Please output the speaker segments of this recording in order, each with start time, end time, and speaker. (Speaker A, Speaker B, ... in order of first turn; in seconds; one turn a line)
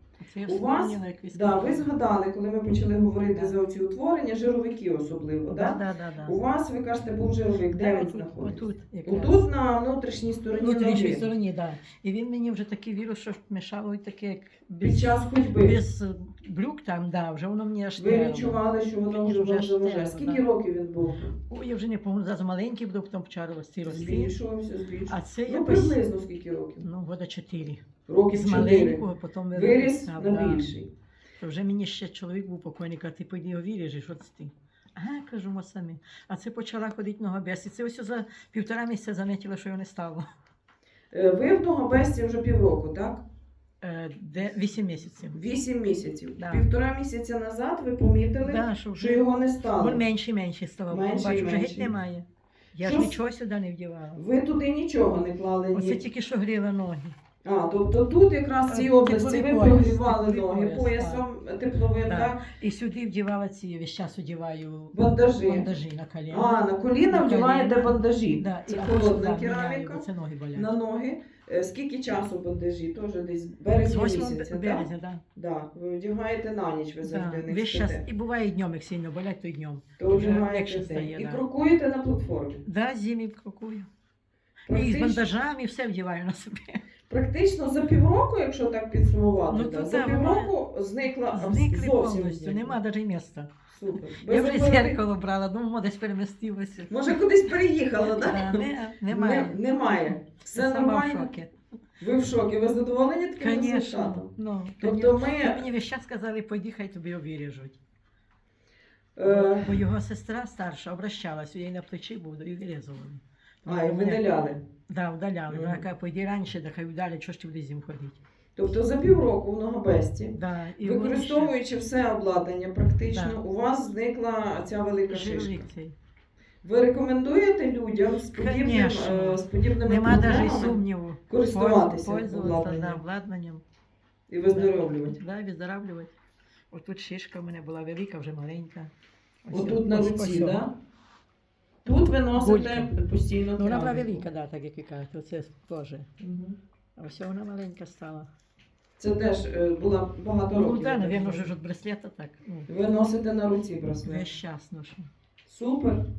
Speaker A: 0.2-1.9
Speaker B: 0.5-11.2
Speaker A: 5.5-6.4
Speaker A: 7.7-9.4
Speaker A: 10.5-18.6
Speaker B: 14.8-15.8
Speaker B: 18.0-21.4
Speaker A: 19.1-20.4
Speaker A: 21.5-24.3
Speaker B: 23.8-26.8
Speaker A: 25.1-26.0
Speaker A: 26.8-30.7
Speaker B: 28.1-30.9
Speaker A: 31.4-40.2
Speaker B: 41.1-43.2
Speaker A: 43.8-45.4
Speaker B: 45.3-50.0
Speaker A: 46.4-46.6
Speaker A: 48.4-54.2
Speaker B: 50.9-51.9
Speaker B: 52.8-53.1
Speaker B: 54.1-56.0
Speaker A: 55.7-57.2
Speaker B: 57.4-62.4
Speaker A: 58.7-61.2
Speaker A: 62.0-70.7
Speaker B: 64.9-65.7
Speaker B: 66.3-78.0
Speaker A: 73.8-75.2
Speaker A: 77.0-81.4
Speaker B: 80.0-82.6
Speaker A: 82.6-83.9
Speaker B: 84.7-85.2
Speaker A: 84.7-86.8
Speaker B: 87.1-92.8
Speaker A: 89.5-90.5
Speaker A: 91.3-93.5
Speaker B: 93.7-95.0
Speaker A: 94.1-97.1
Speaker B: 96.9-101.3
Speaker A: 98.0-101.5
Speaker B: 102.0-105.6
Speaker A: 103.4-107.8
Speaker B: 109.2-109.8
Speaker A: 109.2-114.2
Speaker B: 113.6-114.6
Speaker A: 114.9-118.2
Speaker B: 115.5-115.8
Speaker B: 118.5-125.7
Speaker A: 120.3-121.5
Speaker A: 123.1-123.4
Speaker A: 125.1-125.9
Speaker B: 126.6-133.0
Speaker A: 128.3-133.6
Speaker B: 134.3-135.2
Speaker A: 134.5-136.1
Speaker A: 136.7-138.9
Speaker A: 139.4-140.7
Speaker B: 139.5-140.7
Speaker B: 141.8-144.2
Speaker A: 142.3-143.0
Speaker A: 143.5-146.1
Speaker B: 146.2-146.6
Speaker A: 147.0-148.3
Speaker B: 149.0-151.5
Speaker A: 150.5-152.7
Speaker B: 152.7-154.2
Speaker A: 154.0-155.1
Speaker B: 155.4-156.0